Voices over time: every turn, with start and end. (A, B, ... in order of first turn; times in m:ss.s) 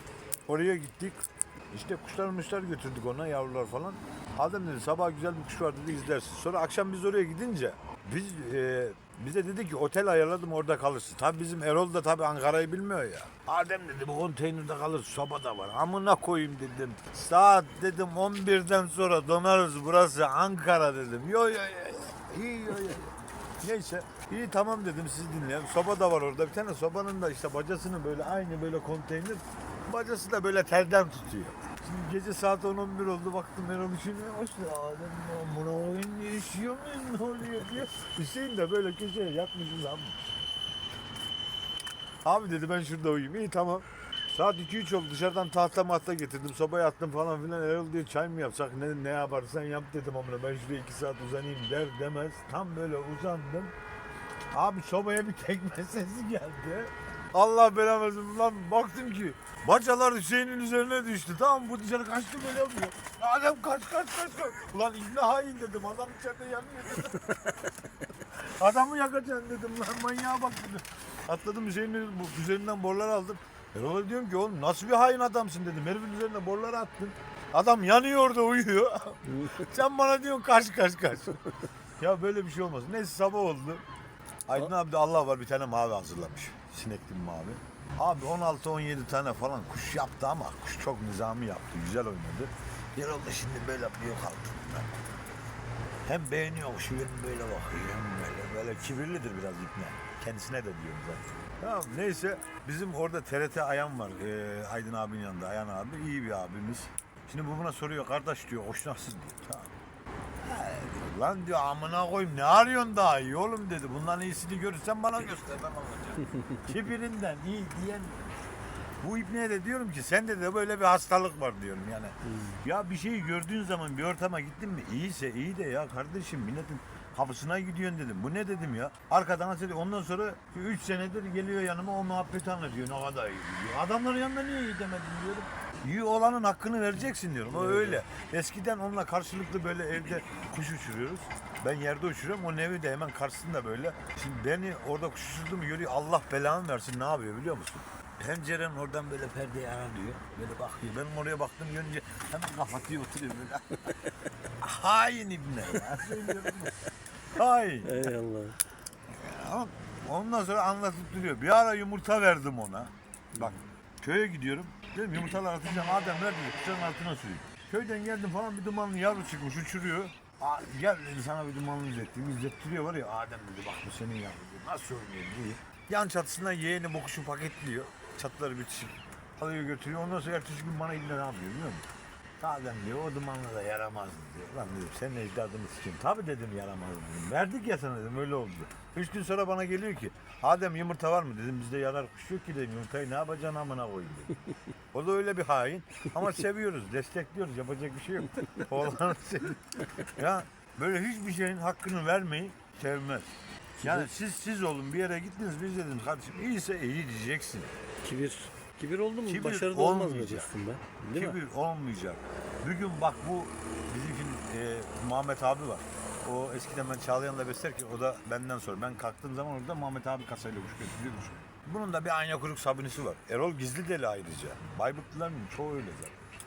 0:00.5-0:40.4 A
0:42.2-0:53.7 A
0:54.5-1:07.6 A
1:08.3-1:21.4 A
1:19.3-1:19.6 B
1:22.0-1:23.8 A
1:24.5-1:34.9 A
1:36.0-1:49.7 A
1:50.4-1:58.2 A
1:59.0-2:33.9 A
2:02.3-2:02.6 B
2:17.5-2:18.0 B
2:34.6-2:36.8 A
2:37.3-2:38.1 A
2:37.8-2:38.6 B
2:39.1-3:01.8 A
3:02.4-3:14.4 A
3:14.9-3:27.7 A
3:23.8-3:24.1 B
3:28.0-3:31.4 B
3:29.2-3:30.5 A
3:31.1-3:46.2 A